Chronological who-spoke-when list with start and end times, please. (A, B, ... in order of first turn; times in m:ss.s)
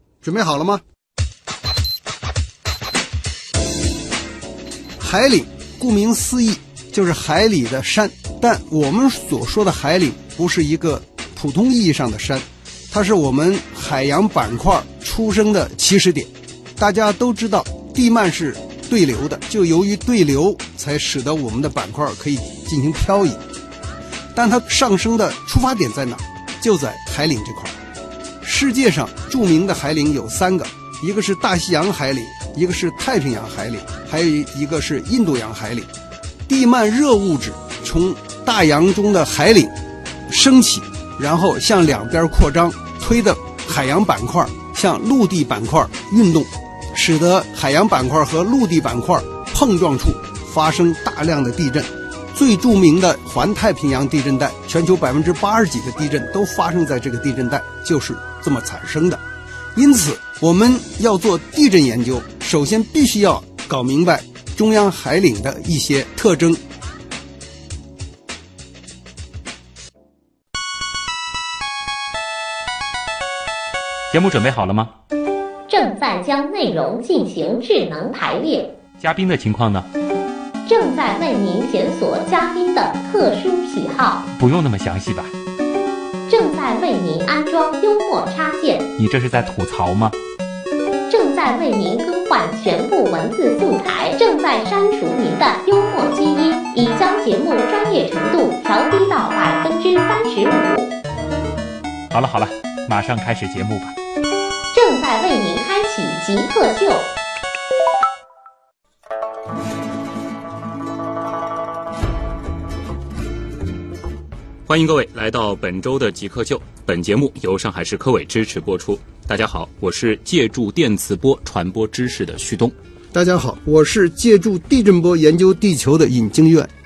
0:00.2-0:00.8 A
0:05.0-0:23.4 A
0:24.3-0:27.8 A
0:28.4-0:35.9 A
0:36.5-0:39.7 A
0:40.3-0:59.2 A
0:59.7-1:06.6 A
1:14.1-1:14.9 B
1:15.7-1:18.7 C
1:19.0-1:19.9 B
1:20.6-1:24.3 C
1:24.3-1:25.3 B
1:26.3-1:28.9 C
1:29.0-1:30.2 B
1:31.1-1:40.9 C
1:42.1-1:44.0 B
1:44.7-1:47.1 C
1:54.6-2:02.7 B
2:03.1-2:06.7 A